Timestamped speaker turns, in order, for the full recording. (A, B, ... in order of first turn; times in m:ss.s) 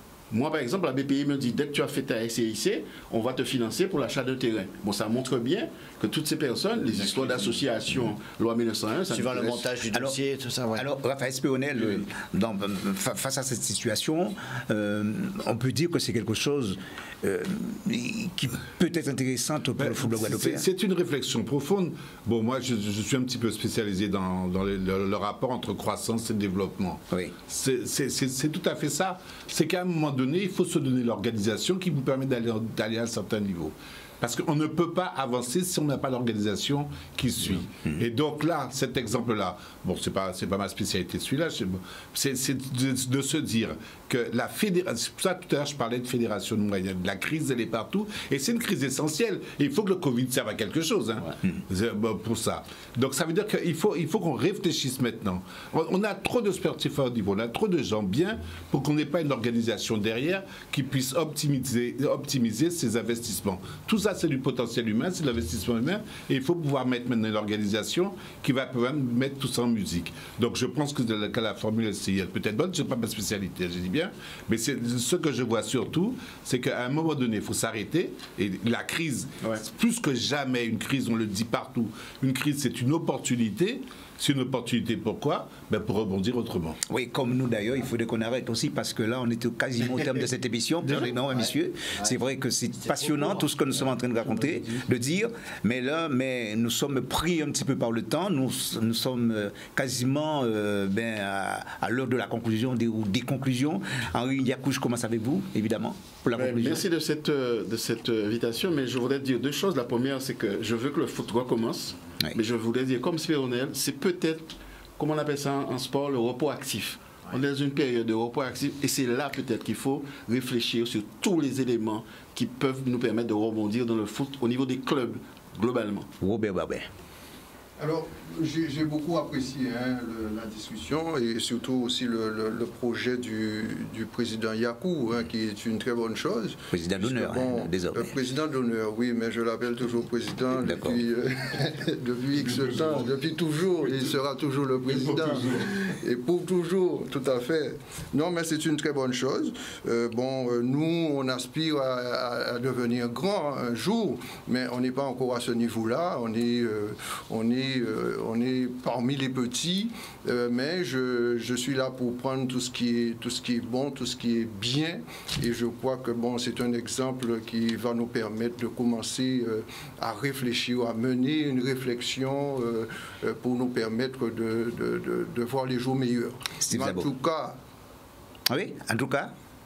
0:00.3-0:09.7 A
0:06.8-0:07.6 B
0:09.1-0:10.8 C
0:09.9-0:10.2 D
0:10.7-0:20.7 D
0:19.8-1:26.8 B
0:27.1-0:27.4 D
1:26.9-1:46.8 D
1:31.0-1:32.2 C
1:32.8-1:33.5 C
1:46.4-2:06.1 A
2:06.2-2:06.9 D
2:07.8-2:57.6 E
2:16.7-2:18.1 D
2:20.6-2:21.0 D
2:22.4-2:23.0 B
2:24.9-2:25.7 B
2:56.6-2:57.1 D
2:58.5-2:59.3 D